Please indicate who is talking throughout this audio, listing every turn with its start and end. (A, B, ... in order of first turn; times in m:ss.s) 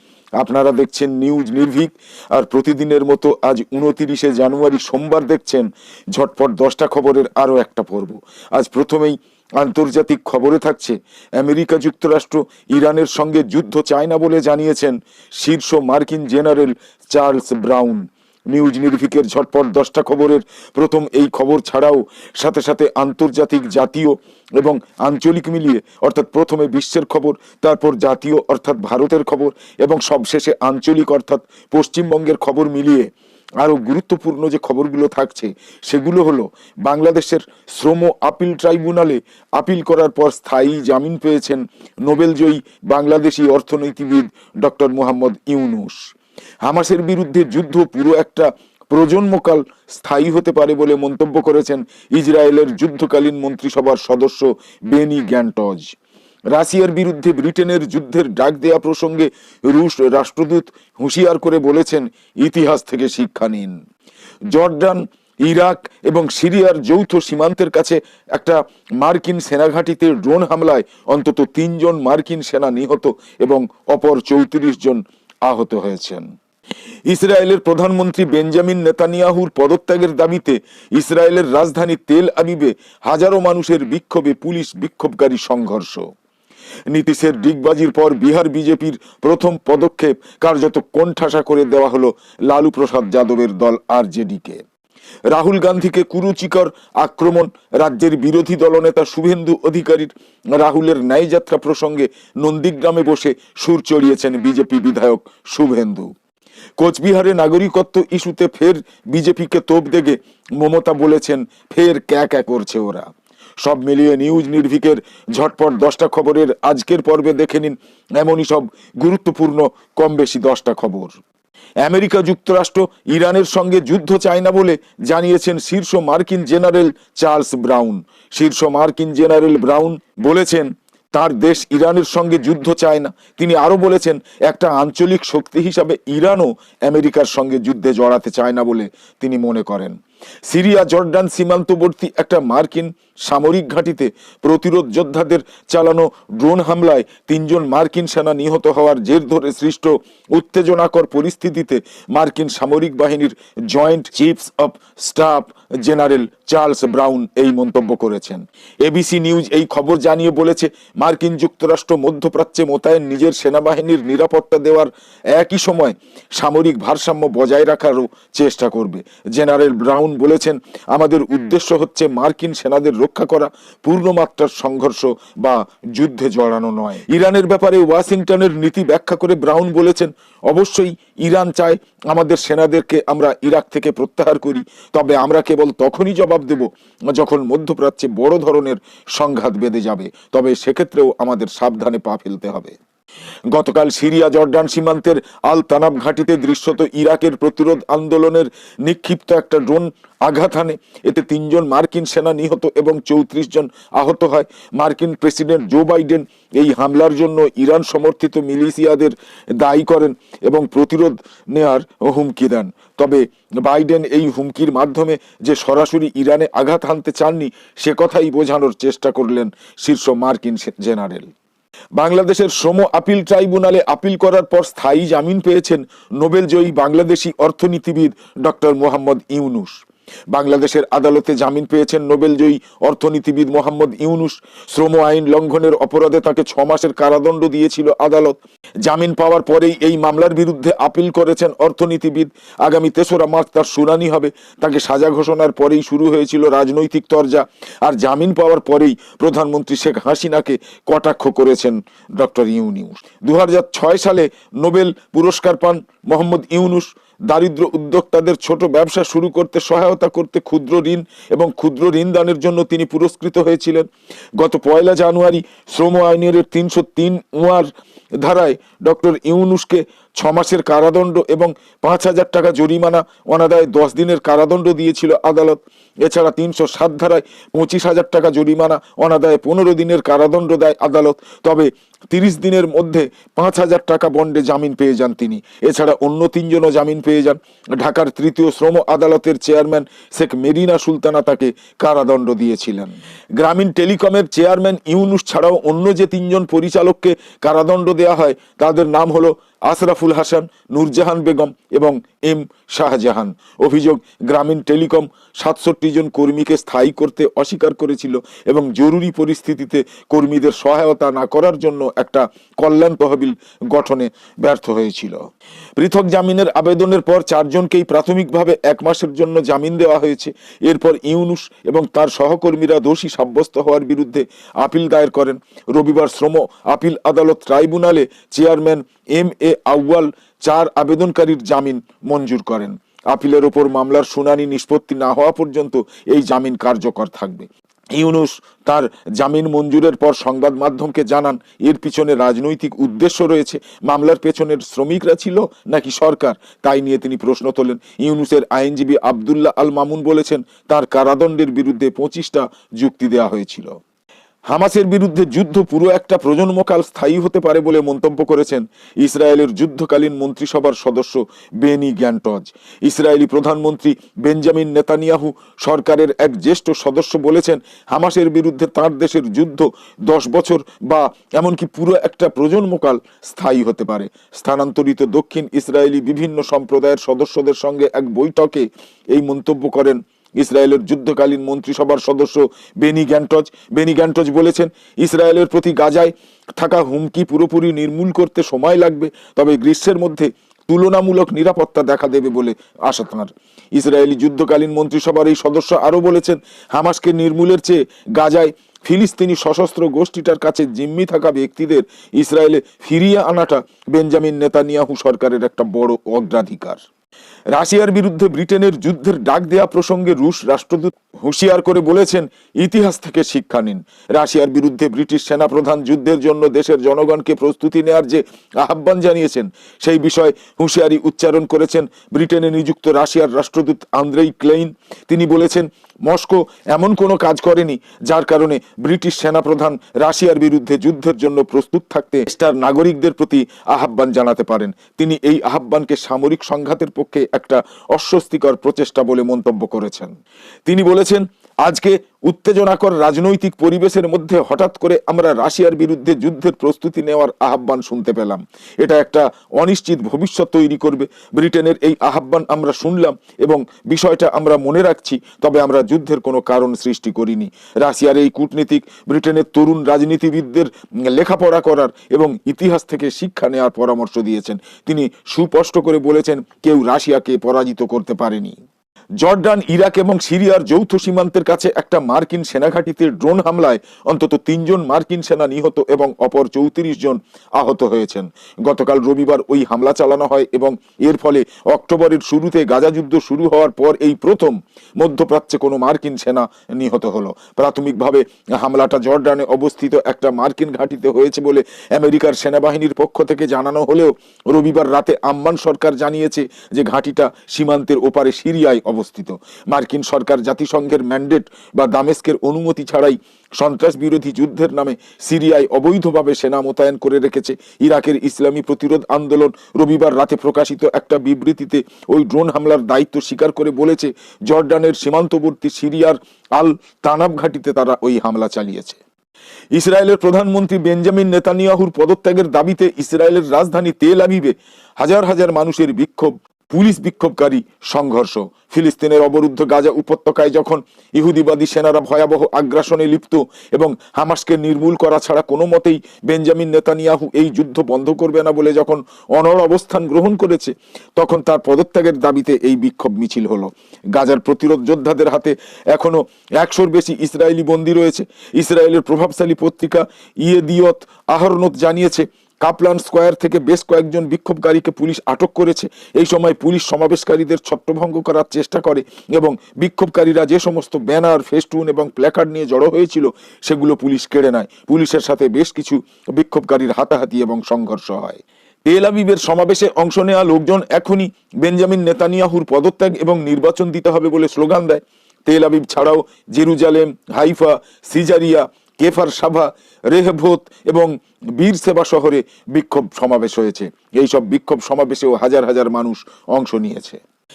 0:00.4-0:55.9 A
0:56.5-1:03.8 A
1:04.5-1:16.3 A
1:17.1-1:26.1 A
1:26.9-1:34.6 A
1:35.3-1:46.1 A
1:46.8-1:53.1 A
1:53.6-2:01.2 A
2:01.8-2:20.0 A
2:20.5-3:12.8 A
3:13.5-3:41.3 A
3:42.0-4:23.9 A
4:24.4-5:15.2 A
5:15.8-5:53.7 A
5:54.5-6:46.8 A
6:47.5-7:20.1 A
7:20.7-7:48.6 A
7:49.2-8:39.0 A
8:39.7-9:47.2 A